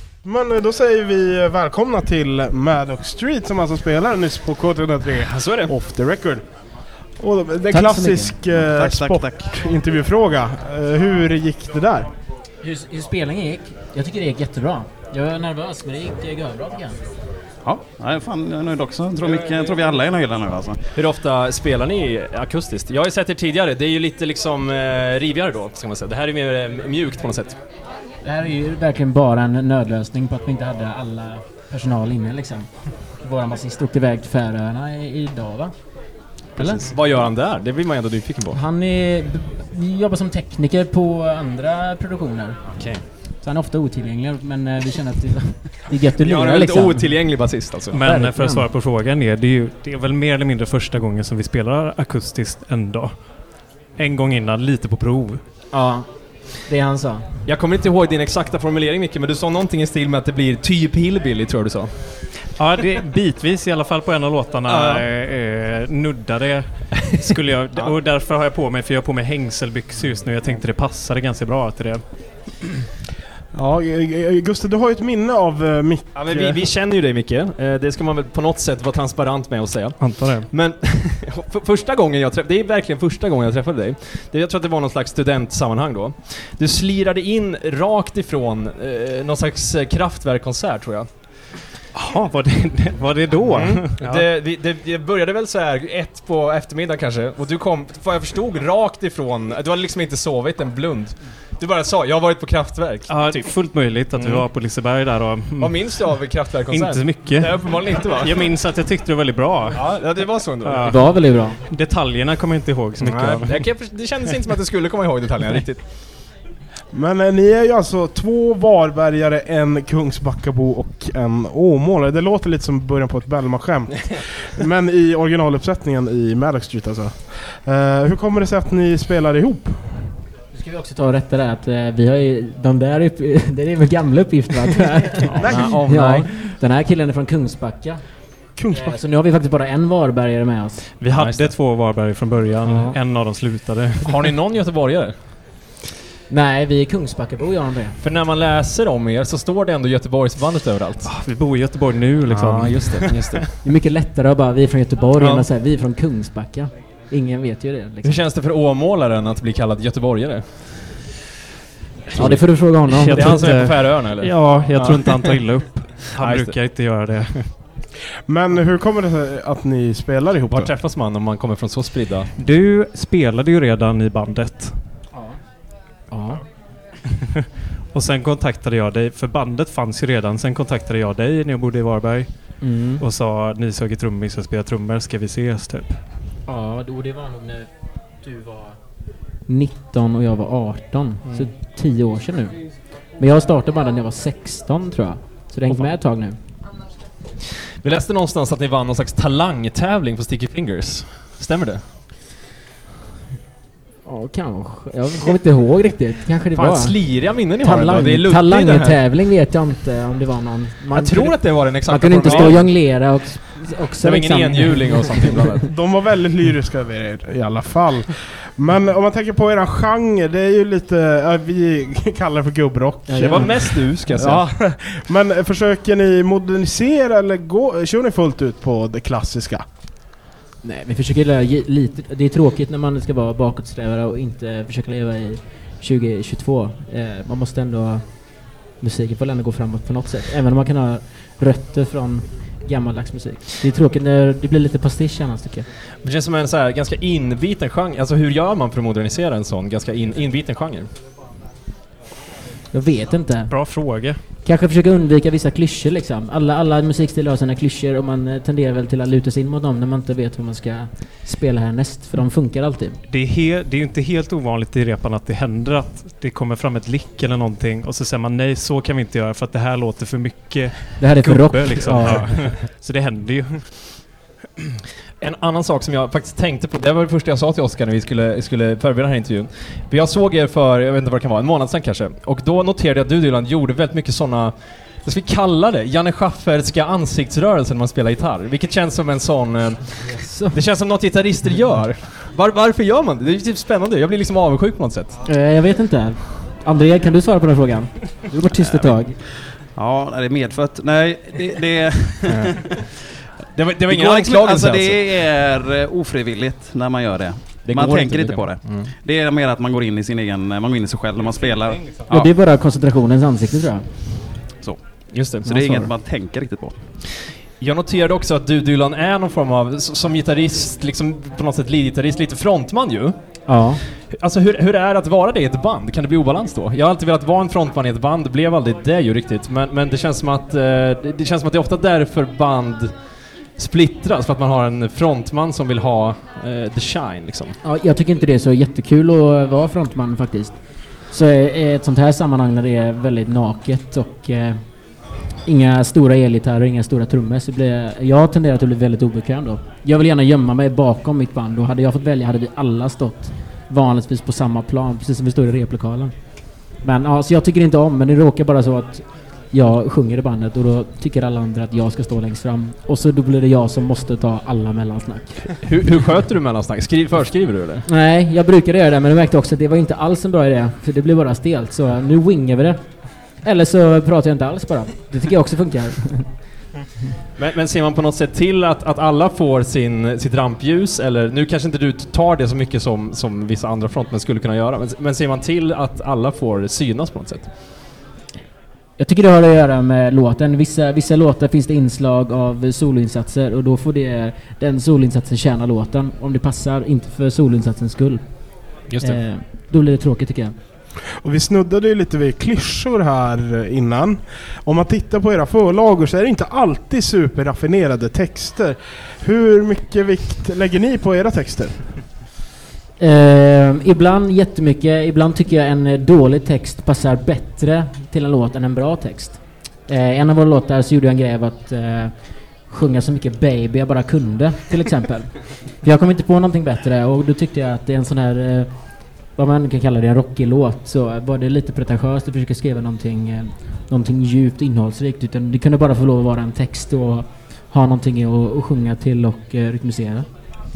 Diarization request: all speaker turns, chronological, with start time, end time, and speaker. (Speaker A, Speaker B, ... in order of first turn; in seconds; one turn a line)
Speaker A: 0.2-6.4
Speaker B: 5.2-5.7
Speaker A: 7.2-12.1
Speaker C: 7.7-8.4
Speaker D: 8.8-9.5
Speaker C: 12.6-17.0
Speaker D: 17.6-20.8
Speaker B: 20.9-27.6
Speaker C: 28.2-35.7
Speaker B: 36.6-38.6
Speaker C: 38.5-42.6
Speaker B: 42.7-43.0
Speaker C: 43.4-47.2
Speaker B: 46.2-48.0
Speaker E: 47.9-53.1
Speaker C: 48.0-48.7
Speaker E: 54.0-55.4
Speaker C: 55.7-57.3
Speaker B: 57.5-62.0
Speaker E: 62.6-72.0
Speaker B: 64.7-65.0
Speaker B: 66.9-67.9
Speaker A: 73.5-76.6
Speaker B: 76.1-91.1
Speaker E: 80.0-80.5
Speaker E: 91.9-94.2
Speaker B: 93.5-103.5
Speaker E: 103.1-105.8
Speaker B: 104.1-104.5
Speaker B: 105.6-108.4
Speaker E: 106.7-109.8
Speaker B: 109.7-110.9
Speaker E: 110.6-111.0
Speaker C: 110.8-111.6
Speaker E: 111.7-113.7
Speaker B: 113.0-115.8
Speaker A: 116.9-130.0
Speaker C: 130.5-138.0
Speaker A: 135.4-135.8
Speaker B: 135.4-136.3
Speaker A: 138.6-139.0
Speaker C: 138.7-140.8
Speaker E: 141.0-144.3
Speaker B: 141.1-141.5
Speaker C: 142.7-143.0
Speaker B: 144.0-145.2
Speaker C: 146.3-148.0
Speaker B: 148.0-151.1
Speaker E: 151.0-153.4
Speaker B: 152.3-153.5
Speaker C: 153.6-158.2
Speaker B: 155.2-155.5
Speaker B: 158.0-161.0
Speaker B: 162.1-162.4
Speaker C: 162.1-163.4
Speaker E: 162.9-167.5
Speaker B: 163.2-165.4
Speaker B: 166.2-166.6
Speaker A: 168.3-170.7
Speaker B: 170.5-172.3
Speaker E: 172.4-174.8
Speaker C: 176.1-176.4
Speaker E: 177.9-186.0
Speaker C: 182.6-183.0
Speaker C: 186.5-187.7
Speaker C: 188.2-188.8
Speaker C: 189.5-192.6
Speaker B: 191.2-191.5
Speaker C: 193.2-196.4
Speaker B: 197.8-201.8
Speaker C: 204.0-215.6
Speaker B: 206.5-209.0
Speaker B: 210.9-212.7
Speaker A: 212.2-212.5
Speaker B: 214.0-215.6
Speaker A: 215.6-229.7
Speaker C: 223.1-223.5
Speaker B: 223.2-224.4
Speaker C: 230.6-238.1
Speaker C: 238.8-245.7
Speaker B: 246.0-250.9
Speaker C: 252.7-253.7
Speaker E: 253.5-254.2
Speaker C: 254.4-263.0
Speaker E: 263.1-274.0
Speaker C: 271.0-272.4
Speaker B: 275.2-295.1
Speaker C: 290.0-290.6
Speaker C: 295.2-299.2
Speaker D: 298.6-298.9
Speaker D: 299.6-302.7
Speaker B: 303.5-305.2
Speaker D: 303.9-312.3
Speaker B: 307.6-308.9
Speaker C: 312.1-313.9
Speaker D: 314.6-316.8
Speaker B: 315.1-315.9
Speaker B: 317.6-323.1
Speaker C: 323.5-323.8
Speaker B: 324.0-332.9
Speaker B: 333.6-337.6
Speaker C: 337.6-340.6
Speaker C: 341.1-344.6
Speaker C: 345.4-356.1
Speaker C: 356.8-365.4
Speaker B: 365.6-367.9
Speaker C: 367.9-372.8
Speaker C: 373.4-376.3
Speaker B: 377.4-387.5
Speaker C: 389.0-398.2
Speaker B: 398.9-399.2
Speaker C: 399.0-400.6
Speaker A: 401.2-411.8
Speaker C: 413.0-428.8
Speaker C: 429.2-440.2